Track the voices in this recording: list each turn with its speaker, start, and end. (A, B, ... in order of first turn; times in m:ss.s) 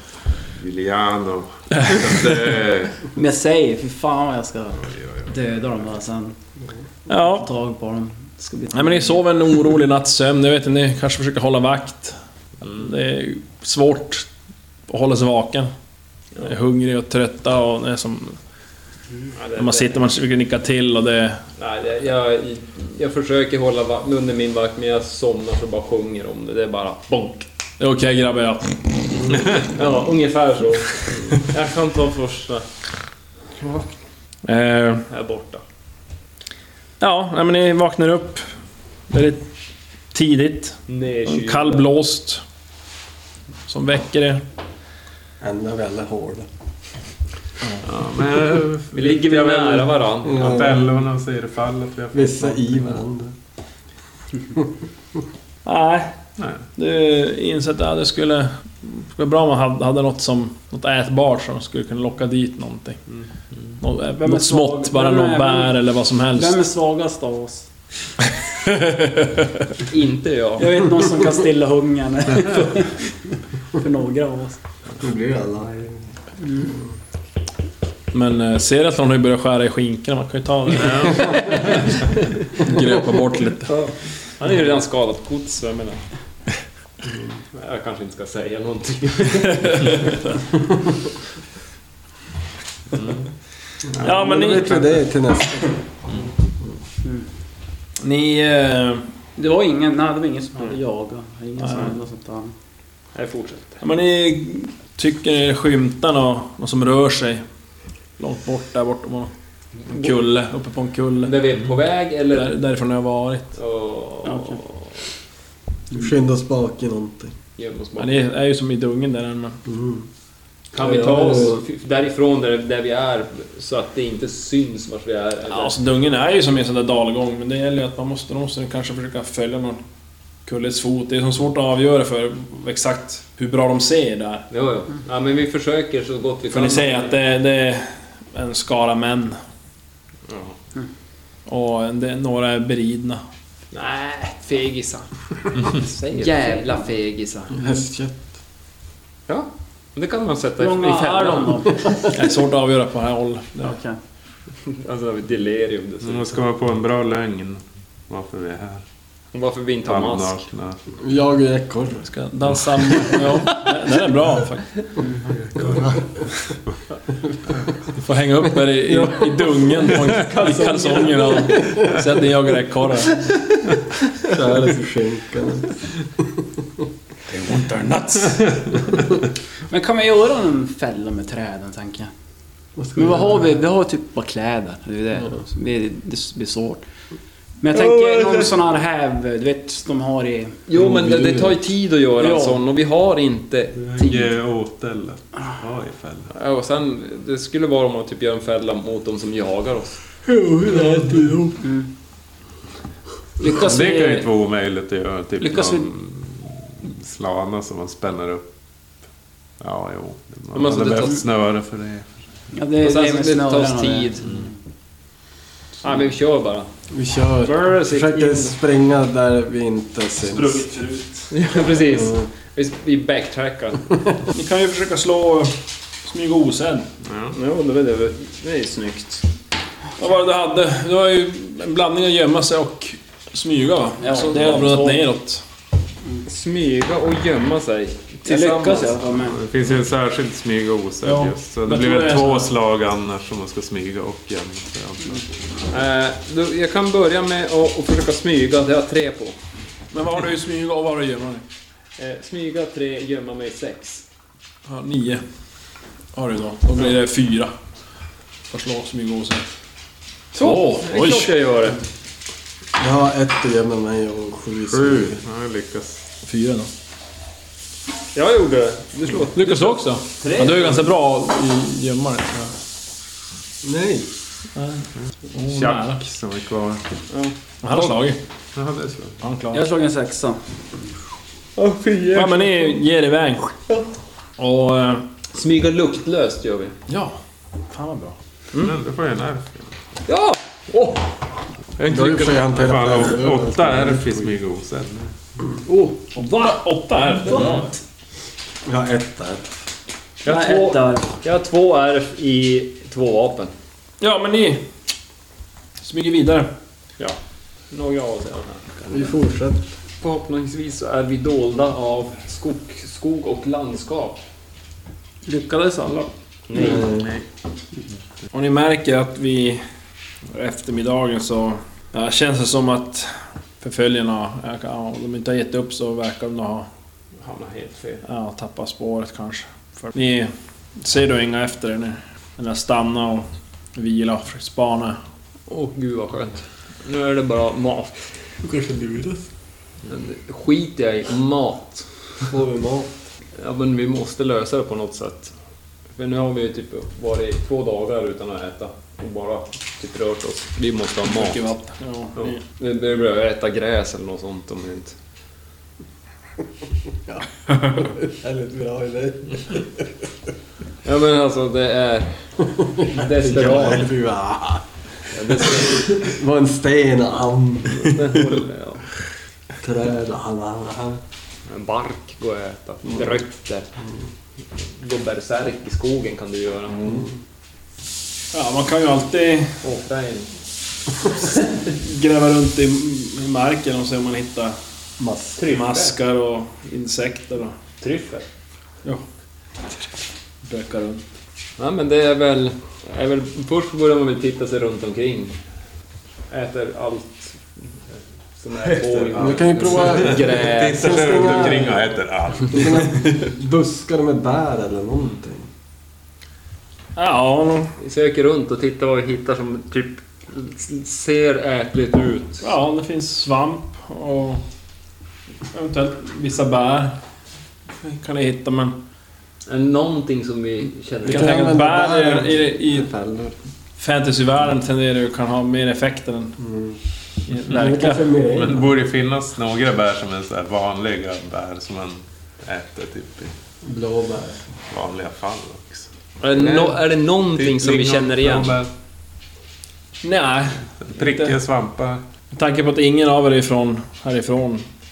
0:00.5-0:03.1 A
0:03.1-0:06.3 B
0:04.8-0:05.3 A
0:07.1-0:07.5 C
0:07.1-0:09.2 B
0:08.7-0:14.3 C
0:14.9-0:15.7 C
0:16.4-0:18.4 C
0:19.4-0:20.0 D
0:19.6-0:21.4 C
0:21.6-0:27.5 D
0:27.8-0:29.4 C
0:29.5-0:32.6 D
0:34.4-0:35.0 C
0:35.1-0:35.6 D
0:37.0-0:38.5 C
0:39.1-0:39.5 C
0:40.1-0:42.4 C
0:40.9-0:41.9 D
0:43.7-0:44.4 C
0:45.4-0:46.5 E
0:47.8-0:53.0 A
0:48.9-0:50.6 D
0:50.2-0:50.8 E
0:52.1-0:53.3 E
0:55.6-0:56.1 C
0:56.4-0:56.6 A
0:56.7-1:03.0 C
1:03.8-1:06.6 C
1:04.2-1:05.8 B
1:06.3-1:07.7 B
1:08.6-1:09.6 C
1:09.9-1:10.8 D
1:10.6-1:14.6 B
1:15.0-1:15.9 E
1:16.4-1:16.7 B
1:18.1-1:21.8 C
1:22.5-1:23.8 C
1:23.7-1:26.0 D
1:27.5-1:30.2 D
1:29.6-1:30.1 C
1:32.9-1:33.2 A
1:33.9-1:35.8 E
1:34.0-1:35.0 C
1:38.0-1:39.0 C
1:39.4-1:42.5 B
1:41.6-1:41.9 C
1:43.1-1:43.8 D
1:43.8-1:47.4 C
1:48.2-1:49.3 C
1:49.9-1:50.2 D
1:49.9-1:51.4 C
1:51.2-1:52.5 D
1:52.3-1:53.6 C
1:53.6-1:54.9 D
1:54.2-1:54.6 B
1:55.9-1:57.3 E
1:57.6-1:58.2 D
1:58.0-1:59.6 C
1:59.6-2:00.1 E
2:00.7-2:05.8 D
2:00.7-2:01.6 E
2:05.5-2:09.8 C
2:10.4-2:14.4 C
2:14.5-2:17.2 D
2:16.5-2:19.4 C
2:20.3-2:20.5 D
2:21.5-2:23.2 C
2:23.7-2:27.5 D
2:26.1-2:27.2 B
2:27.5-2:28.3 E
2:29.3-2:31.8 D
2:30.6-2:32.1 B
2:32.1-2:33.7 C
2:33.6-2:34.0 B
2:34.6-2:36.4 D
2:36.0-2:38.8 A
2:39.3-2:40.4 D
2:39.8-2:40.8 A
2:41.0-2:42.0 E
2:42.0-2:44.7 C
2:42.5-2:43.0 A
2:45.2-2:46.0 A
2:45.6-2:46.0 E
2:48.0-2:53.2 C
2:50.4-2:51.3 D
2:54.3-2:56.4 E
2:57.3-2:58.4 C
2:59.7-3:02.1 B
3:02.8-3:03.6 E
3:03.0-3:06.8 B
3:07.6-3:10.6 B
3:07.7-3:08.5 A
3:10.7-3:14.3 D
3:10.7-3:11.6 E
3:12.2-3:12.6 B
3:13.8-3:16.3 A
3:16.3-3:20.0 D
3:20.3-3:21.6 E
3:21.6-3:21.9 B
3:23.4-3:24.2 B
3:23.5-3:28.4 A
3:25.4-3:25.9 B
3:29.6-3:32.1 A
3:30.5-3:31.2 D
3:32.5-3:34.4 B
3:32.8-3:34.3 D
3:35.8-3:36.7 D
3:36.9-3:40.6 E
3:37.4-3:38.5 D
3:40.2-3:41.3 C
3:41.3-3:44.0 D
3:41.9-3:42.2 E
3:44.3-3:46.9 C
3:47.0-3:47.4 A
3:47.3-3:49.2 D
3:50.0-3:55.4 C
3:54.0-3:55.0 B
3:56.2-3:59.0 D
3:58.2-3:59.4 B
3:59.2-4:05.3 A
4:01.0-4:02.5 C
4:05.7-4:09.4 D
4:09.9-4:11.4 C
4:12.0-4:14.0 D
4:14.6-4:15.2 C
4:16.1-4:17.5 C
4:18.5-4:19.4 C
4:20.3-4:21.8 D
4:20.3-4:21.3 C
4:22.8-4:25.2 E
4:24.6-4:26.0 A
4:26.2-4:26.7 C
4:28.1-4:30.9 D
4:29.3-4:32.5 C
4:33.6-4:34.1 E
4:34.6-4:36.0 C
4:35.4-4:36.9 A
4:37.1-4:37.9 D
4:37.6-4:38.2 C
4:38.5-4:39.2 A
4:39.2-4:39.6 C
4:39.5-4:40.4 B
4:41.6-4:42.8 D
4:42.1-4:43.5 C
4:44.4-4:45.0 C
4:45.3-4:46.8 D
4:46.9-4:47.2 C
4:47.7-4:48.2 C
4:48.5-4:49.7 A
4:50.1-4:51.2 D
4:51.8-4:55.1 A
4:51.8-4:54.3 E
4:51.9-4:52.2 D
4:55.7-4:56.0 B
4:56.1-4:57.7 C
4:58.6-4:59.5 E
5:00.2-5:01.2 B
5:00.2-5:03.5 D
5:04.0-5:04.6 C
5:05.8-5:06.5 C
5:07.7-5:09.1 D
5:08.9-5:09.7 E
5:10.0-5:14.2 D
5:15.2-5:16.8 B
5:16.5-5:17.1 D
5:16.5-5:17.1 E
5:18.3-5:19.6 C
5:20.3-5:26.7 C
5:27.2-5:28.0 D
5:28.0-5:35.0 C
5:35.5-5:38.0 D
5:38.4-5:39.2 E
5:39.8-5:41.9 D
5:42.2-5:43.0 E
5:43.4-5:45.3 D
5:46.0-5:51.4 D
5:51.0-5:52.4 C
5:52.2-5:55.0 D
5:57.0-5:59.9 E
6:00.8-6:02.1 D
6:02.6-6:04.6 E
6:02.7-6:03.9 D
6:05.1-6:06.1 D
6:05.3-6:08.2 E
6:07.7-6:08.8 D
6:09.6-6:11.0 E
6:11.5-6:13.7 D
6:14.8-6:17.0 D
6:18.3-6:19.6 C
6:19.6-6:20.3 D
6:21.7-6:24.6 C
6:25.0-6:25.4 E
6:25.4-6:26.0 D
6:25.5-6:27.6 C
6:27.8-6:28.2 D
6:30.4-6:31.0 C
6:31.6-6:35.3 D
6:36.3-6:41.6 D
6:39.0-6:43.2 A
6:39.1-6:41.8 E
6:42.5-6:45.5 E
6:47.0-6:47.7 C
6:47.8-6:52.4 D
6:52.4-6:54.4 C
6:55.5-6:57.0 C
6:57.8-6:58.8 C
6:59.4-7:01.4 D
7:01.0-7:03.3 E
7:01.0-7:02.9 C
7:03.8-7:06.4 C
7:06.4-7:06.8 E
7:07.3-7:08.1 C
7:07.4-7:08.7 E
7:08.3-7:13.3 A
7:13.6-7:14.5 E
7:14.7-7:18.7 A
7:16.2-7:18.6 D
7:20.0-7:21.3 C
7:20.8-7:22.0 A
7:22.3-7:24.6 C